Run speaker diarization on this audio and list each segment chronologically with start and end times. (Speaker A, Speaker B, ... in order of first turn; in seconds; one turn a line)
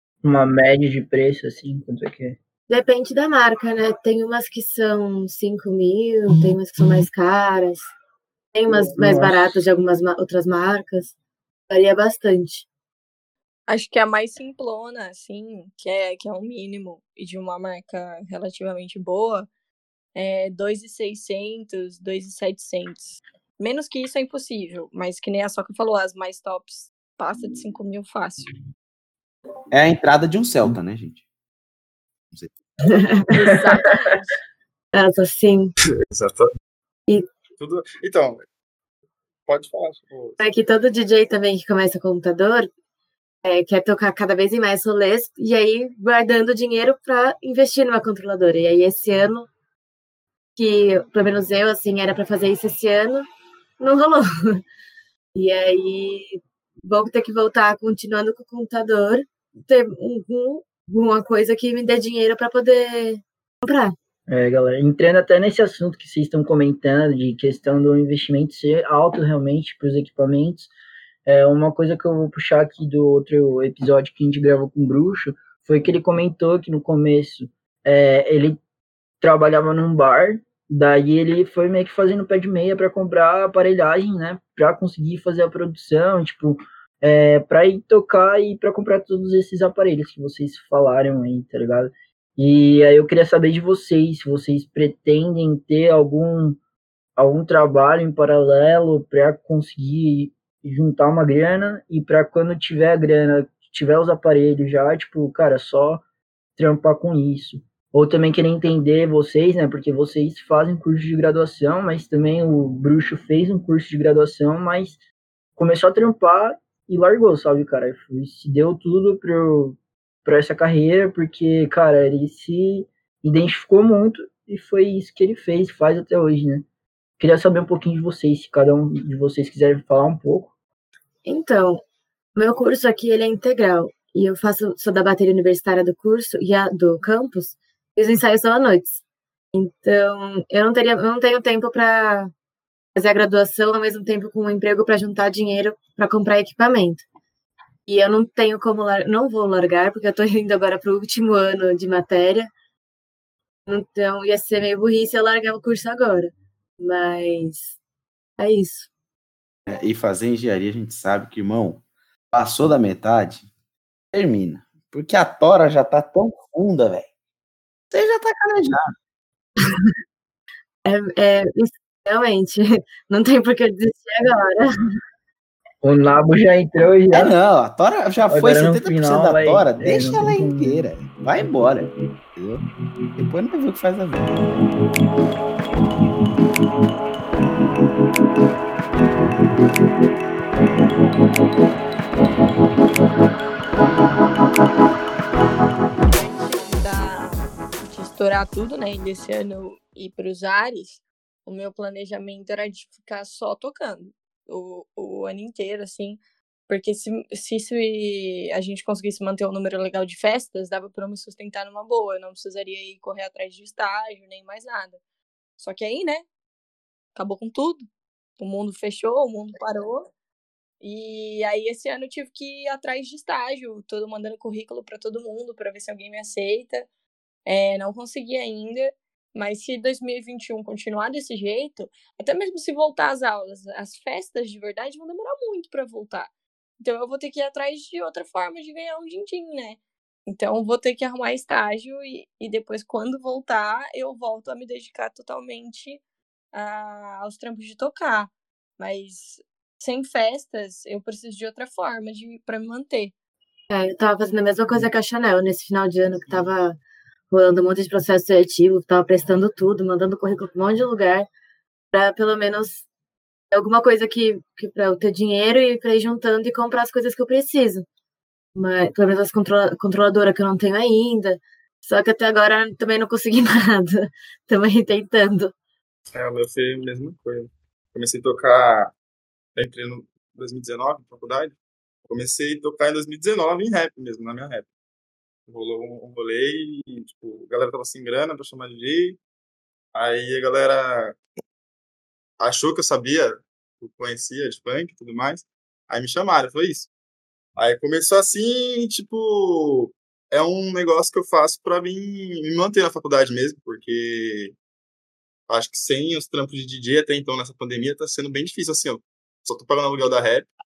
Speaker A: 0.2-2.4
Speaker B: 2.7-7.8
Speaker B: 8.5-11.1
Speaker A: 8.7-9.6
Speaker B: 11.7-12.7
Speaker C: 13.7-19.5
Speaker C: 20.1-28.5
Speaker D: 29.7-31.2
Speaker B: 32.9-33.1
Speaker C: 33.3-34.4
Speaker B: 34.9-35.7
Speaker E: 36.1-36.5
Speaker E: 37.6-38.5
Speaker E: 39.5-40.4
Speaker B: 40.4-42.7
Speaker B: 43.4-49.5
Speaker B: 50.6-53.2
Speaker B: 53.8-54.6
Speaker B: 55.4-64.0
Speaker A: 64.3-70.7
Speaker A: 71.3-78.6
Speaker A: 79.2-96.6
Speaker A: 97.2-106.0
Speaker A: 106.6-115.0
Speaker A: 115.6-126.7
Speaker A: 127.2-130.5
Speaker B: 131.2-131.8
Speaker B: 132.4-139.0
Speaker B: 139.5-142.3
Speaker B: 143.0-147.0
Speaker B: 147.9-152.5
Speaker B: 153.7-157.8
Speaker B: 158.4-158.9
Speaker D: 159.7-163.5
Speaker D: 164.1-167.1
Speaker D: 167.9-168.9
Speaker B: 170.8-174.8
Speaker A: 175.8-177.3
Speaker D: 177.1-182.6
Speaker A: 178.3-180.9
Speaker D: 183.2-184.5
Speaker C: 196.0-215.0
Speaker C: 215.6-216.3
Speaker C: 217.2-217.9
Speaker C: 218.4-220.1
Speaker C: 220.8-226.9
Speaker C: 227.5-246.0
Speaker C: 246.5-253.1
Speaker B: 253.7-256.8
Speaker B: 257.3-261.3
Speaker B: 261.9-262.8
Speaker B: 263.5-267.9
Speaker B: 268.6-275.5
Speaker E: 276.1-278.9
Speaker E: 279.6-281.6
Speaker E: 282.1-284.7
Speaker E: 285.5-289.2
Speaker E: 289.9-291.2
Speaker E: 292.4-296.9
Speaker E: 297.6-304.6
Speaker E: 305.5-310.5